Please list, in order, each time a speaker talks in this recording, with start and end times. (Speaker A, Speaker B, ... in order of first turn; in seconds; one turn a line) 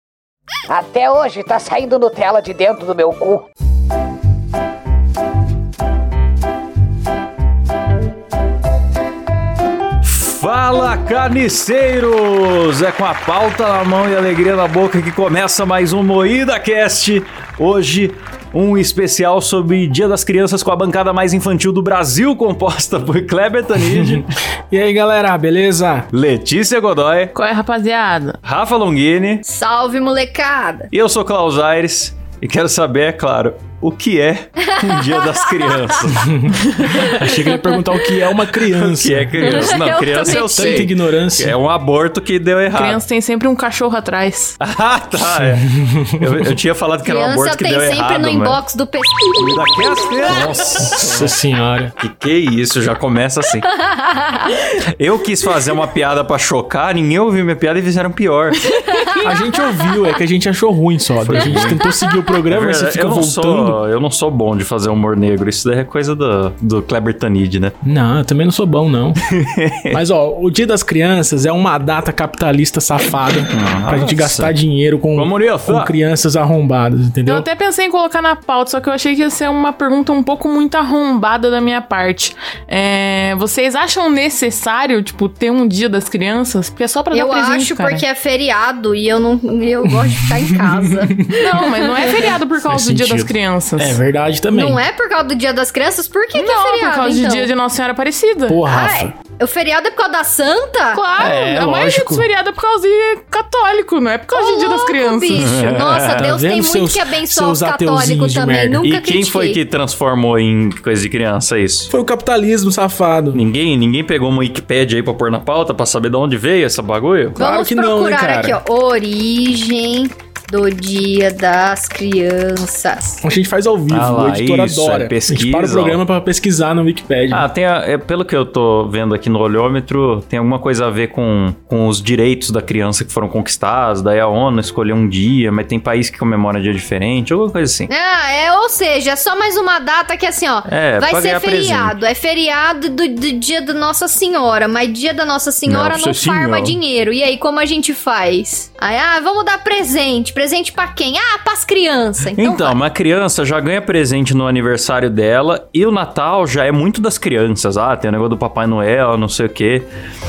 Speaker A: 0.7-3.5
Speaker B: 10.0-24.3
Speaker C: 23.8-26.1
Speaker B: 26.1-27.3
Speaker D: 27.3-28.4
Speaker B: 28.4-29.4
Speaker E: 29.4-30.9
Speaker B: 30.9-36.4
Speaker E: 34.7-35.9
Speaker C: 36.1-39.7
Speaker E: 37.0-37.7
Speaker B: 38.8-43.0
Speaker E: 39.4-40.9
Speaker C: 40.4-41.6
Speaker D: 42.7-44.6
Speaker B: 44.6-48.6
Speaker C: 45.3-46.5
Speaker E: 47.0-50.4
Speaker B: 49.4-51.3
Speaker C: 50.8-51.9
Speaker B: 52.0-53.7
Speaker E: 53.8-54.6
Speaker B: 54.9-58.8
Speaker E: 58.9-59.2
Speaker C: 59.2-63.8
Speaker B: 61.2-62.0
Speaker B: 62.5-67.7
Speaker C: 67.8-69.2
Speaker B: 69.3-70.0
Speaker C: 69.9-77.5
Speaker B: 73.5-74.5
Speaker B: 75.1-75.9
Speaker D: 77.3-88.0
Speaker E: 87.1-91.2
Speaker C: 89.9-94.8
Speaker D: 91.3-94.0
Speaker E: 94.5-97.5
Speaker D: 96.3-98.6
Speaker C: 98.5-99.1
Speaker E: 98.7-101.0
Speaker D: 100.9-105.6
Speaker C: 101.2-102.3
Speaker E: 104.3-109.6
Speaker B: 105.3-106.3
Speaker C: 106.2-108.8
Speaker B: 108.8-111.9
Speaker C: 111.9-113.4
Speaker B: 113.3-117.4
Speaker C: 117.3-118.6
Speaker E: 117.4-123.2
Speaker C: 123.2-127.5
Speaker B: 123.9-126.0
Speaker B: 127.3-137.9
Speaker E: 137.9-152.8
Speaker B: 140.7-141.9
Speaker B: 145.7-146.8
Speaker B: 152.4-159.9